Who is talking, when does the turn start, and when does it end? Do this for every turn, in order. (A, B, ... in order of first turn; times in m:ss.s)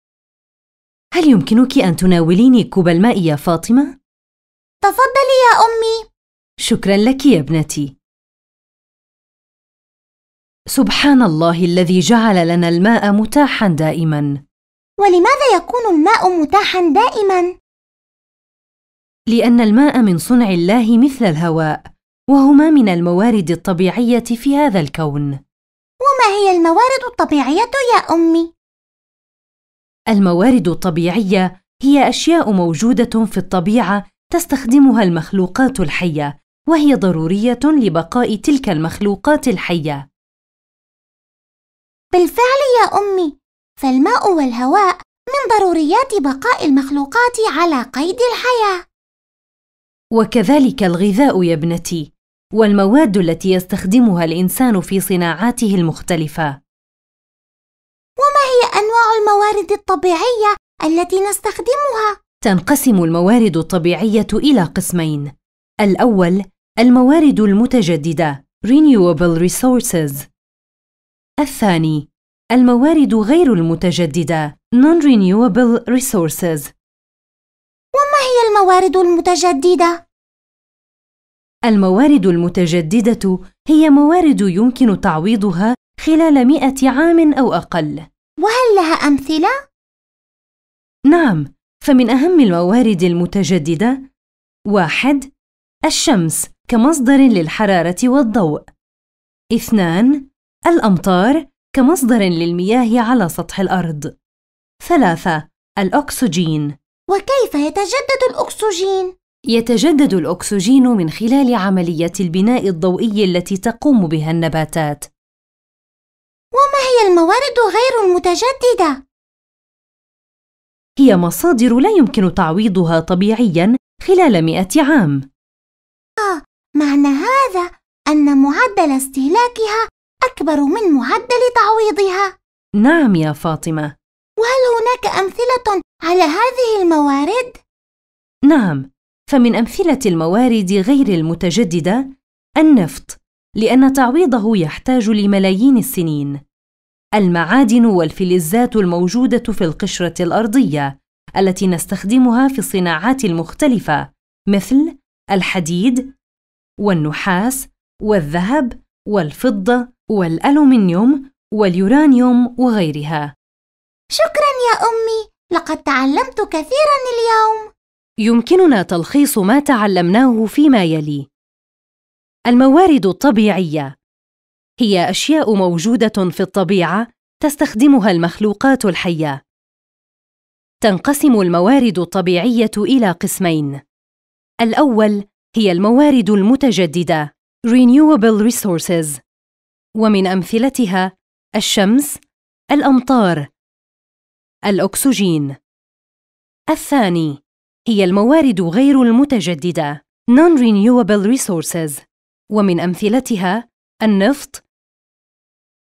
0:01.2-0:04.0 A
0:04.8-0:06.0 B
0:06.6-0:07.9 A
0:10.7-0:14.4 A
0:15.0-0:17.5 B
0:19.3-0:25.4 A
0:26.0-0:28.5 B
0:30.1-0:40.1 A
0:42.1-0:48.8 B
0:50.1-0:56.6 A
0:58.2-1:02.1 B
1:02.4-1:10.3 A
1:11.4-1:16.7 A
1:18.0-1:20.0 B
1:21.7-1:28.1 A
1:28.4-1:29.5 B
1:31.1-1:34.0 A
1:34.7-1:35.3 A
1:35.9-1:38.7 A
1:39.5-1:44.1 A
1:44.8-1:46.7 A
1:47.1-1:49.1 B
1:49.5-1:55.1 A
1:56.6-1:59.0 B
2:01.0-2:05.2 A
2:06.2-2:12.3 B
2:12.8-2:13.9 A
2:14.4-2:17.6 B
2:18.5-2:26.4 A
2:27.2-2:36.1 A
2:36.8-2:43.3 A
2:44.1-2:47.7 B
2:48.2-2:51.3 A
2:52.5-2:53.9 A
2:54.8-2:59.4 A
3:00.8-3:03.8 A
3:04.6-3:09.2 A
3:10.0-3:12.2 A
3:12.7-3:13.5 A
3:14.7-3:15.6 A
3:16.7-3:24.6 A